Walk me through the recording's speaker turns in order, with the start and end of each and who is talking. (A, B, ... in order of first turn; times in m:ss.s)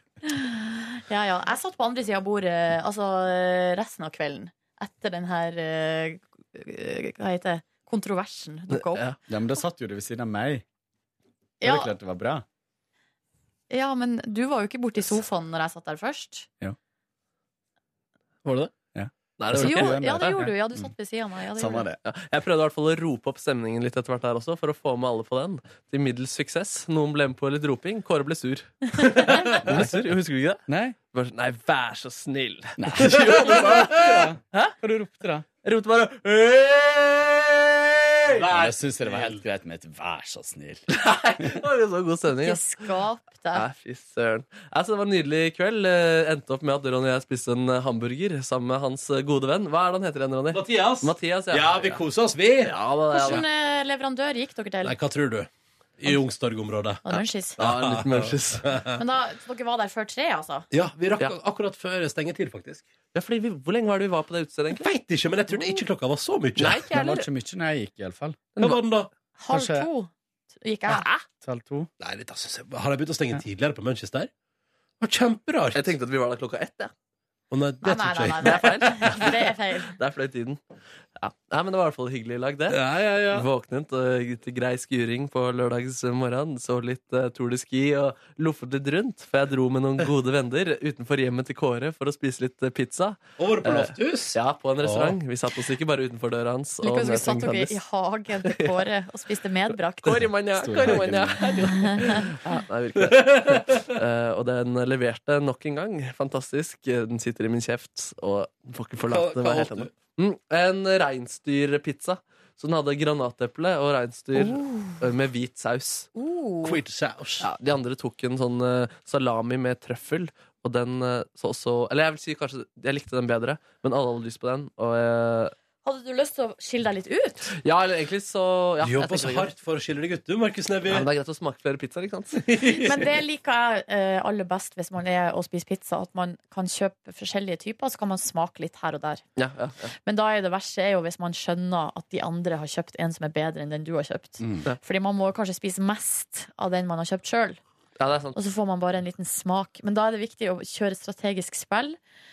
0:00.3-0:09.1 A
0:08.7-0:09.2 B
0:09.3-0:10.6 C
0:11.6-0:11.9 A
0:11.6-0:12.4 C
0:13.7-0:16.5 A
0:18.4-0:18.7 B
0:18.9-0:20.9 C
0:19.4-0:20.4 B
0:19.6-0:21.8 A
0:21.6-0:22.0 C
0:22.0-0:34.7 B
0:29.1-0:29.6 D
0:29.7-0:30.0 C
0:30.7-0:31.0 C
0:32.8-0:35.5 C
0:35.6-0:36.2 B
0:36.2-0:39.4 D
0:38.4-0:40.8 C
0:40.9-0:42.6 B
0:42.4-0:43.6 A
0:43.5-0:52.0 B
0:50.5-0:52.7 D
0:52.6-0:53.4 B
0:53.1-0:55.0 A
0:54.8-0:59.0 D
0:57.0-0:57.6 A
0:57.6-0:58.7 B
0:59.0-1:00.7 A
1:00.7-1:02.9 D
1:03.1-1:04.9 B
1:04.7-1:06.8 D
1:05.5-1:05.8 B
1:06.6-1:07.3 B
1:06.9-1:08.5 C
1:08.6-1:09.1 D
1:09.4-1:10.1 A
1:09.5-1:09.9 C
1:10.6-1:11.1 A
1:10.9-1:11.2 B
1:11.4-1:11.9 C
1:12.0-1:14.3 D
1:15.0-1:15.9 D
1:15.8-1:16.9 B
1:17.5-1:19.3 D
1:17.8-1:19.9 A
1:18.4-1:19.4 B
1:19.9-1:20.6 B
1:21.2-1:22.8 B
1:22.7-1:23.5 D
1:23.3-1:37.8 B
1:33.4-1:35.2 D
1:36.8-1:40.2 A
1:38.5-1:38.7 B
1:40.0-1:56.1 B
1:40.5-1:41.9 C
1:43.0-1:43.8 D
1:49.1-1:49.9 D
1:54.4-1:55.0 A
1:56.2-1:56.8 A
1:56.6-1:57.5 D
1:57.4-2:05.5 B
2:05.8-2:07.6 A
2:07.6-2:09.5 B
2:08.8-2:11.1 D
2:10.9-2:12.4 B
2:12.4-2:13.0 D
2:12.7-2:19.2 A
2:19.4-2:20.0 B
2:20.0-2:27.6 A
2:24.4-2:24.7 C
2:28.0-2:28.4 B
2:28.4-2:32.0 A